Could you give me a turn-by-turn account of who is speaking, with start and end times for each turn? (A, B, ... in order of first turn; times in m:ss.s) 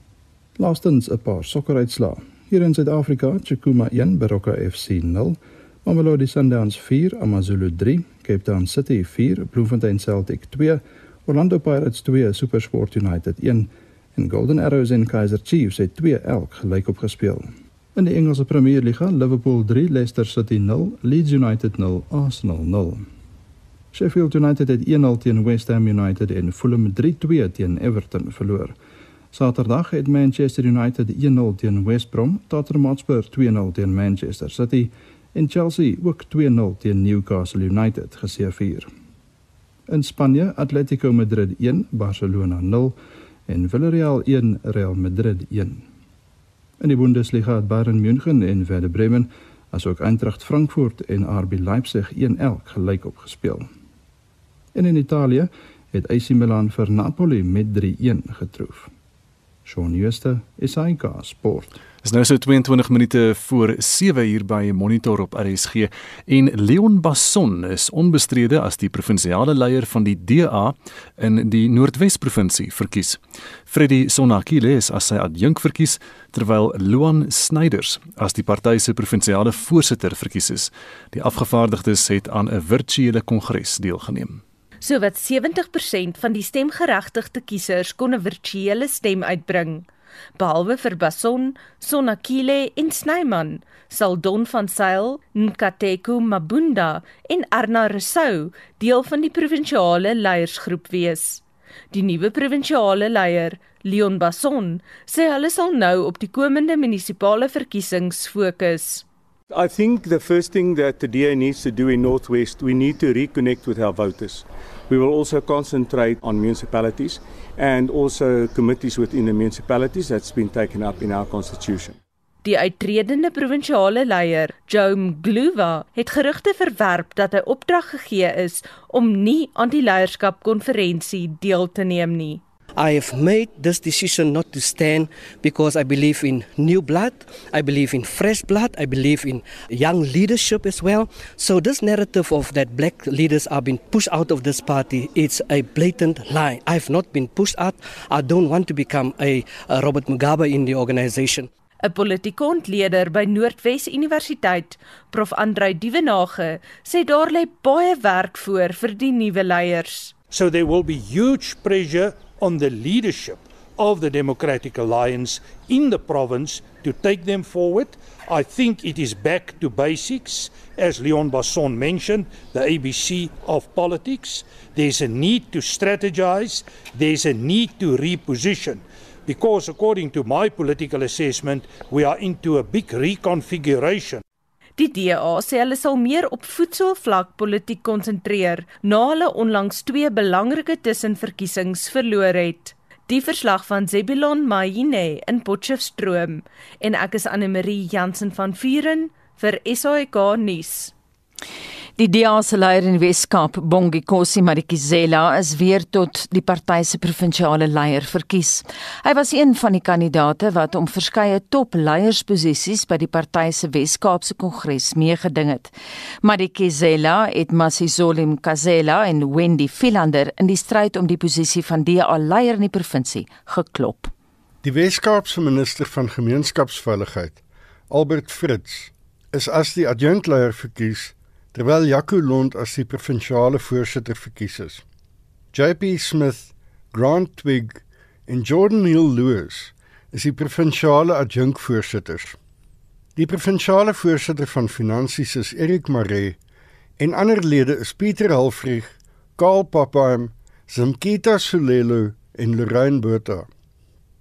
0:00.6-0:23.0 A
0:23.9-0:28.8 A
0:29.3-0:38.9 A
0:39.9-0:43.0 A
0:43.5-0:45.8 A
0:46.8-0:53.7 A
0:54.7-0:58.9 A
0:59.6-1:01.8 A
1:02.0-1:24.4 B
1:24.8-1:29.9 C
1:30.4-1:49.0 C
1:49.5-2:02.0 D
2:02.4-2:12.4 C
2:12.8-2:31.5 E
2:31.8-2:40.1 C
2:40.3-3:04.2 F
3:04.8-3:20.9 C
3:22.0-3:44.1 G
3:44.6-3:47.4 H
3:47.9-3:54.8 H
3:55.5-4:02.4 H
4:03.2-4:06.4 H
4:07.0-4:13.5 H